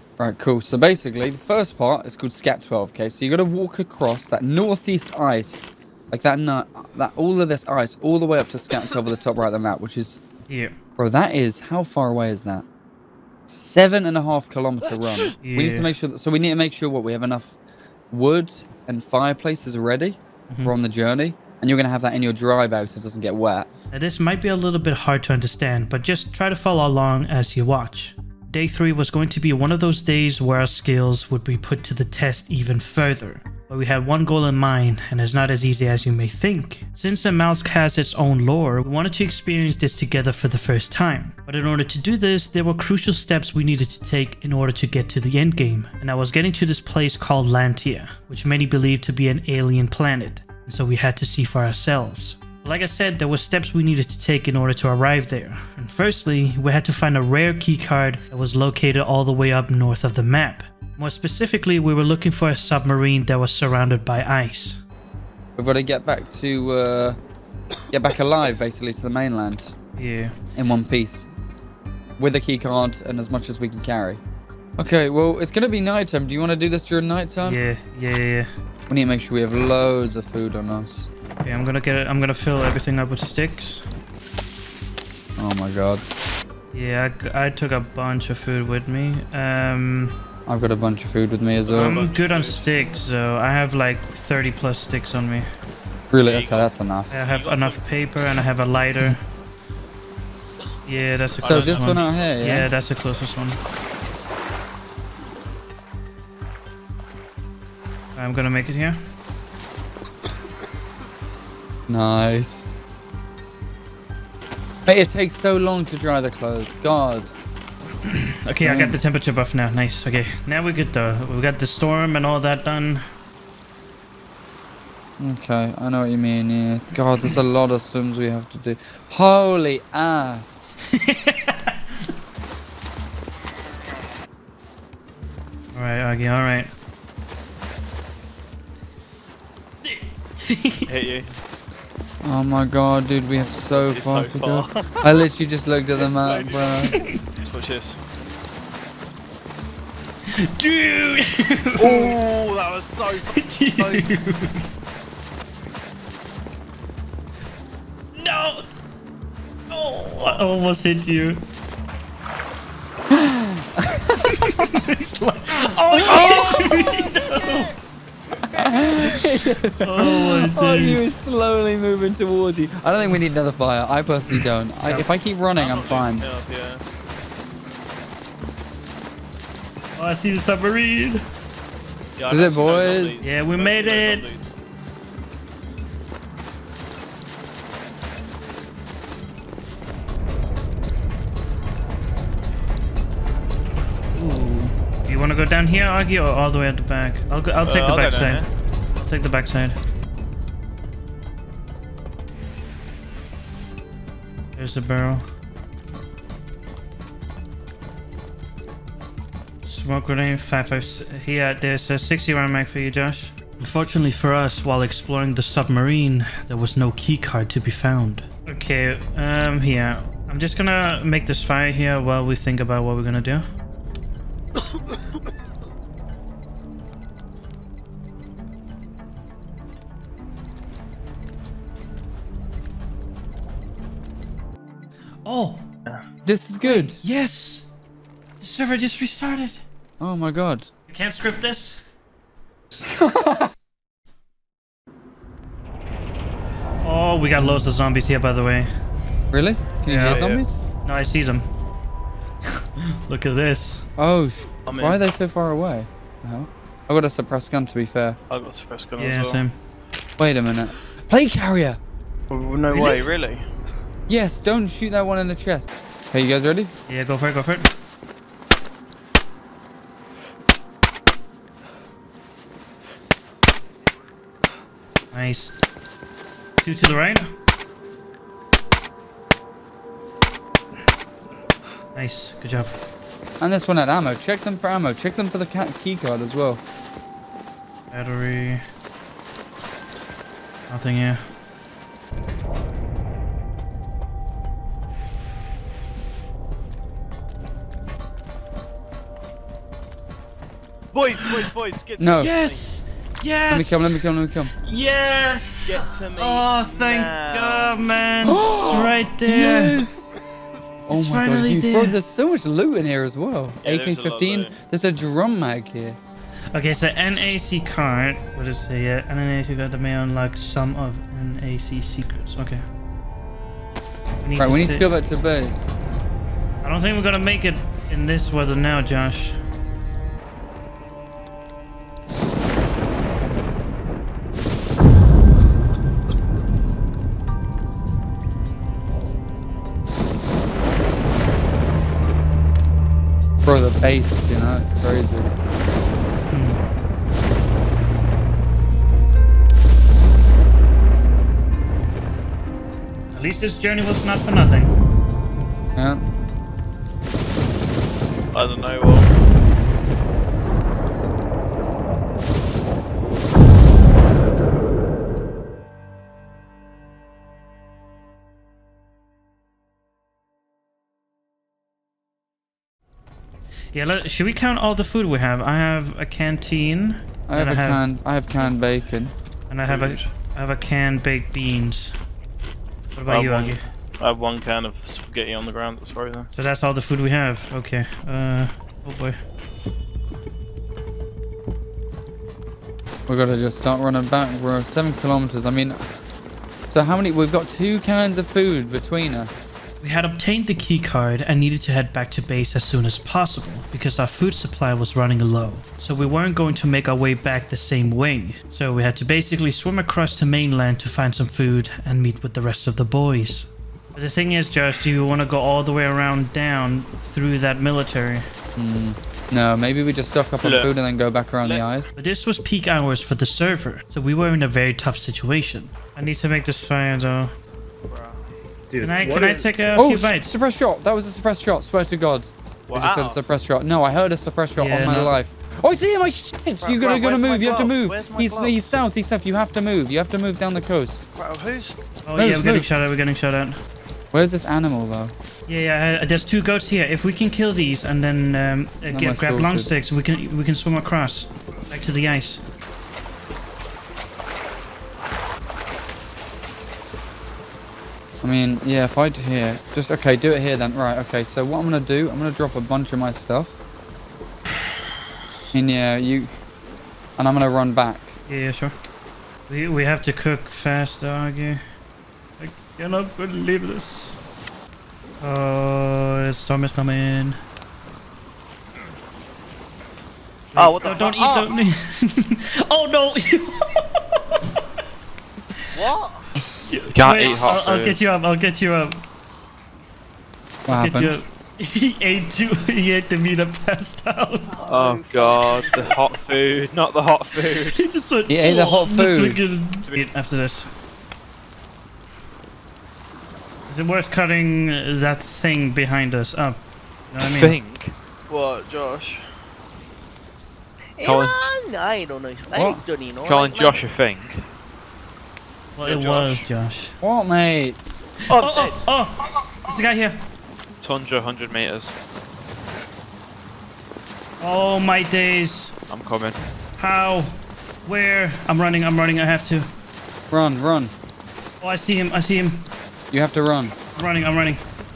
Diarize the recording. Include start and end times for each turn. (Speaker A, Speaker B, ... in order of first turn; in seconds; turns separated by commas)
Speaker A: 0.2-10.2, Speaker B: 10.5-10.8, Speaker A: 11.0-12.7, Speaker A: 13.5-17.6, Speaker B: 15.4-15.9, Speaker A: 18.1-23.7, Speaker B: 20.5-20.8, Speaker B: 23.9-64.8, Speaker A: 65.6-67.2, Speaker A: 67.9-69.8, Speaker B: 70.0-70.3, Speaker A: 70.5-71.3, Speaker A: 72.2-74.2, Speaker A: 74.8-77.6, Speaker B: 77.4-78.5, Speaker A: 78.9-81.1, Speaker B: 81.4-83.9, Speaker A: 85.4-86.1, Speaker B: 86.7-90.2, Speaker A: 90.5-92.1, Speaker C: 91.6-93.0, Speaker B: 91.7-95.5, Speaker A: 96.1-97.1, Speaker D: 96.2-97.8, Speaker B: 97.1-99.2, Speaker B: 100.9-103.6, Speaker C: 101.4-102.1, Speaker A: 101.4-102.7, Speaker B: 108.2-109.0, Speaker A: 111.9-112.8, Speaker A: 114.9-117.3, Speaker B: 118.0-123.0, Speaker A: 118.6-119.0, Speaker A: 125.2-130.7, Speaker B: 130.9-132.1, Speaker B: 135.7-136.7, Speaker B: 139.8-140.9, Speaker C: 140.9-141.3, Speaker A: 142.2-146.9, Speaker C: 143.3-145.2, Speaker C: 145.9-148.0, Speaker B: 146.9-147.2, Speaker B: 150.3-152.2, Speaker C: 151.8-154.2, Speaker B: 153.3-154.7, Speaker B: 158.1-158.7, Speaker B: 159.7-161.4, Speaker A: 163.1-164.7, Speaker B: 164.5-167.7, Speaker C: 165.9-166.3, Speaker A: 166.1-167.1, Speaker A: 168.5-176.3, Speaker B: 169.0-171.0, Speaker B: 174.8-175.1, Speaker C: 175.5-176.8, Speaker B: 180.0-181.2, Speaker C: 182.2-184.4, Speaker A: 182.2-183.3, Speaker B: 183.2-184.3, Speaker B: 194.1-198.4, Speaker C: 197.6-198.5, Speaker B: 199.0-199.8, Speaker B: 204.6-205.2, Speaker B: 209.7-223.5, Speaker B: 235.2-235.7, Speaker A: 236.2-237.0, Speaker B: 236.6-237.7, Speaker B: 238.4-239.6, Speaker A: 240.0-240.7, Speaker B: 240.9-241.8, Speaker A: 242.8-243.5, Speaker B: 246.8-248.7, Speaker A: 247.4-247.6, Speaker A: 249.3-250.6, Speaker B: 249.8-250.3, Speaker B: 250.8-251.5, Speaker B: 252.8-253.9, Speaker A: 254.0-258.2, Speaker C: 254.7-255.0, Speaker C: 258.3-259.5, Speaker B: 259.0-259.6, Speaker A: 260.2-261.8, Speaker C: 262.3-263.5, Speaker B: 262.7-263.1, Speaker A: 264.1-266.7, Speaker B: 266.9-267.7, Speaker B: 275.1-275.6, Speaker B: 276.6-277.3, Speaker B: 281.9-282.8, Speaker A: 283.4-286.6, Speaker B: 287.9-288.6, Speaker B: 290.7-291.3, Speaker C: 300.9-302.9, Speaker A: 302.0-302.3, Speaker B: 302.2-304.0, Speaker A: 303.5-304.5, Speaker B: 304.6-309.8, Speaker C: 305.6-307.8, Speaker A: 308.2-310.1, Speaker C: 308.6-308.9, Speaker B: 310.9-312.0, Speaker A: 310.9-316.0, Speaker C: 313.6-314.6, Speaker B: 316.5-322.6, Speaker B: 324.2-324.9, Speaker A: 324.4-325.7, Speaker B: 326.6-329.4, Speaker A: 343.4-345.3, Speaker B: 346.3-346.6, Speaker B: 353.1-354.8, Speaker A: 355.8-356.0, Speaker C: 358.3-359.1, Speaker B: 373.7-377.9, Speaker A: 377.3-379.1, Speaker B: 379.5-381.9, Speaker C: 379.6-380.1, Speaker B: 383.0-383.6, Speaker C: 383.1-386.3, Speaker B: 386.3-389.2, Speaker A: 393.1-395.9, Speaker A: 396.7-399.5, Speaker B: 399.8-418.3, Speaker A: 418.6-421.9, Speaker C: 420.4-420.7, Speaker C: 421.4-421.7, Speaker B: 422.0-427.3, Speaker C: 427.9-429.7, Speaker B: 428.8-430.3, Speaker A: 429.8-441.0, Speaker C: 432.7-433.4, Speaker B: 434.6-435.1, Speaker C: 436.6-438.9, Speaker C: 441.1-441.8, Speaker B: 442.1-443.6, Speaker A: 442.2-442.7, Speaker A: 444.1-445.1, Speaker B: 445.5-452.4, Speaker A: 448.9-449.7, Speaker A: 458.2-463.6, Speaker A: 465.5-466.3, Speaker A: 467.2-468.2, Speaker B: 468.3-468.7, Speaker B: 469.5-471.6, Speaker B: 472.4-474.2, Speaker B: 475.2-477.4, Speaker B: 480.5-484.4, Speaker C: 480.6-481.5, Speaker C: 485.8-486.3, Speaker B: 486.6-489.0, Speaker D: 486.9-488.0, Speaker A: 490.7-491.2, Speaker B: 490.7-494.6, Speaker D: 494.7-497.8, Speaker C: 494.7-496.1, Speaker B: 497.7-500.7, Speaker A: 498.3-499.4, Speaker B: 503.7-506.6, Speaker B: 507.1-507.6, Speaker D: 507.2-507.9, Speaker C: 508.3-509.3, Speaker D: 511.0-511.4, Speaker E: 511.0-513.7, Speaker A: 512.5-512.9, Speaker C: 512.7-513.7, Speaker D: 513.2-514.5, Speaker B: 515.8-516.9, Speaker C: 515.9-516.5, Speaker A: 517.0-517.8, Speaker B: 518.3-520.2, Speaker C: 518.3-518.9, Speaker D: 520.8-521.9, Speaker B: 524.4-525.7, Speaker D: 525.9-526.4, Speaker B: 526.8-529.7, Speaker A: 530.3-530.9, Speaker B: 531.6-532.7, Speaker A: 533.1-533.8, Speaker B: 534.0-534.6